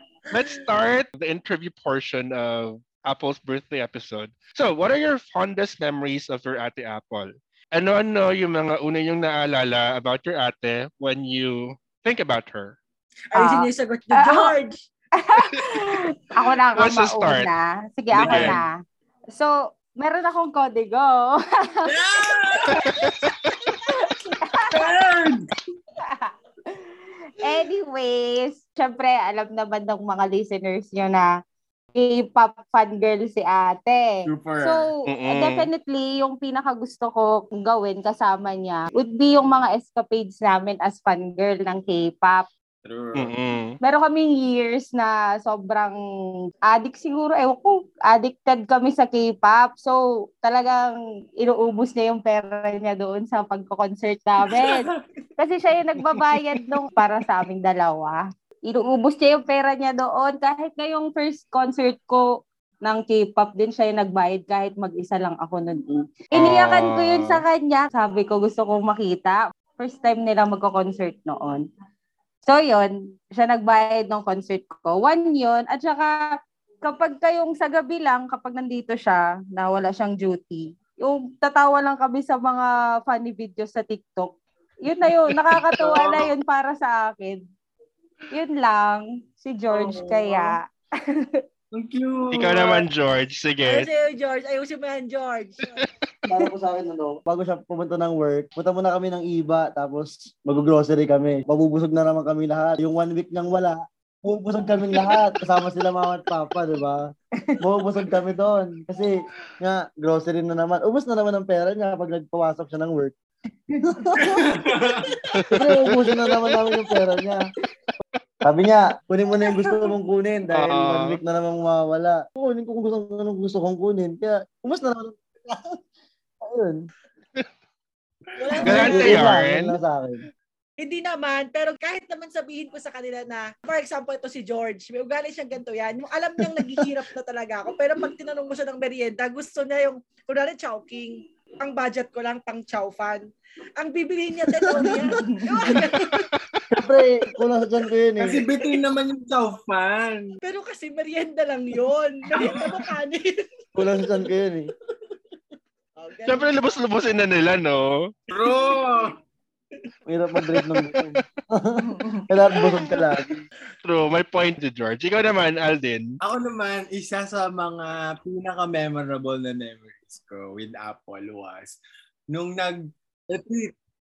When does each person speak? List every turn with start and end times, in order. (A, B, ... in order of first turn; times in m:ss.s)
0:00.3-0:12.8 A
0:13.3-0:14.8 B
0:13.4-0:14.5 C
0:15.2-0:18.8 C
0:16.8-0:17.5 A
0:18.1-0:18.6 D
0:18.2-0:18.6 A
0:19.3-0:22.8 C
0:21.9-0:22.9 D
0:22.8-0:23.3 A
0:23.8-0:24.9 C
0:24.2-0:24.9 B
0:24.7-0:25.5 D
0:26.1-0:26.3 C
0:27.4-0:31.3 C
0:32.0-0:42.4 C
0:34.2-0:34.9 D
0:35.1-0:35.7 A
0:42.8-0:43.3 D
0:43.2-0:43.8 A
0:43.8-0:46.0 C
0:46.7-1:02.2 C
0:54.4-0:55.0 D
0:56.0-0:56.8 D
1:02.8-1:11.6 C
1:06.3-1:07.4 A
1:12.5-1:16.2 C
1:16.8-1:27.4 C
1:25.8-1:26.2 D
1:28.3-1:31.4 C
1:29.7-1:30.6 D
1:31.7-1:32.8 D
1:32.3-1:33.9 A
1:33.7-1:35.8 B
1:36.3-1:47.0 E
1:47.6-1:53.2 E
1:53.7-1:54.5 E
1:54.2-1:55.2 D
1:55.4-1:56.6 A
1:55.5-1:57.5 E
1:58.4-2:05.8 E
2:00.5-2:01.2 A
2:06.4-2:06.8 E
2:08.4-2:09.4 B
2:08.5-2:08.9 D
2:08.6-2:09.8 A
2:08.7-2:10.2 E
2:10.8-2:26.3 B
2:24.7-2:25.1 E
2:24.8-2:25.4 C
2:25.9-2:26.2 A
2:26.7-2:28.4 E
2:28.2-2:30.4 D
2:30.4-2:34.3 B
2:33.8-2:34.7 E
2:36.0-2:36.6 B
2:36.3-2:38.1 A
2:38.3-2:39.2 D
2:38.4-2:38.8 B
2:40.1-2:43.4 E
2:41.9-2:42.2 C
2:43.8-2:46.2 A
2:46.2-2:51.8 D
2:52.3-2:52.8 D
2:53.3-2:53.7 D